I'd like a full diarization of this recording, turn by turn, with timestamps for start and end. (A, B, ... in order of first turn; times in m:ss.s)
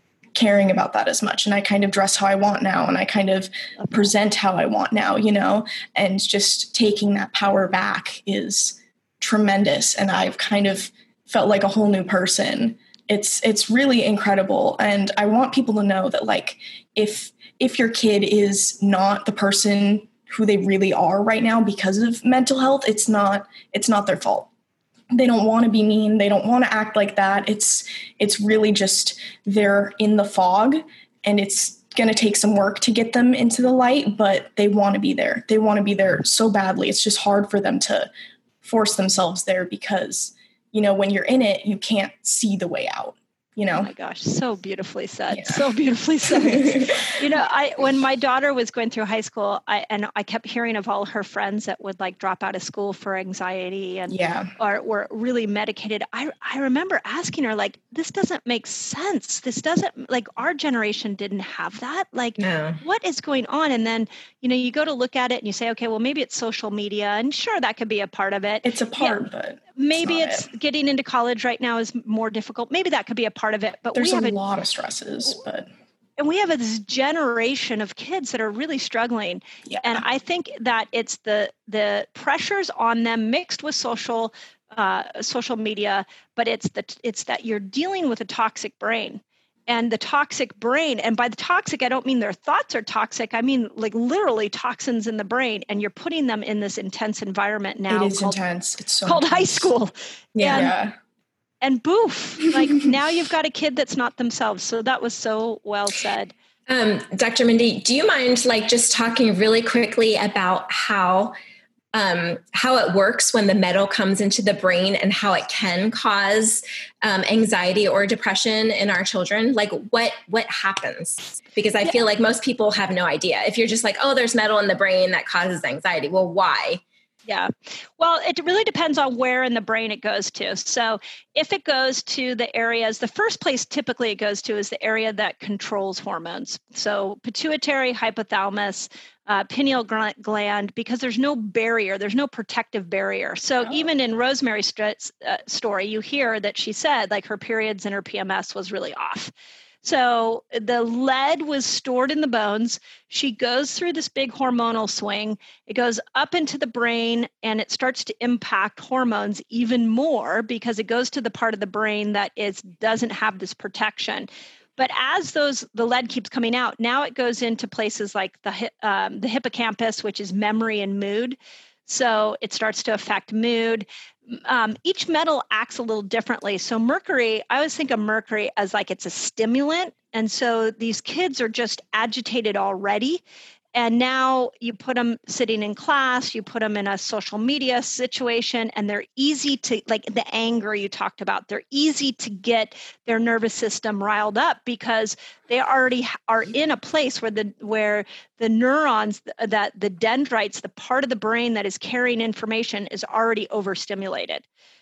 0:00.3-0:24.5 A
0:25.1-0:38.1 A
0:38.6-0:43.9 A
0:43.7-1:09.2 B
0:45.3-0:45.6 A
0:46.3-0:47.1 A
0:54.1-0:54.5 A
1:02.4-1:02.8 C
1:08.6-1:10.5 A
1:09.8-1:14.4 B
1:13.9-1:15.7 A
1:16.2-1:38.4 B
1:19.7-1:20.0 A
1:37.9-1:39.7 A
1:39.0-1:40.7 B
1:40.3-1:40.7 C
1:40.4-1:40.9 A
1:41.6-1:46.3 B
1:46.7-1:51.4 C
1:51.9-2:06.8 C
2:07.3-2:29.3 B
2:29.8-3:03.2 B
3:03.7-3:24.4 B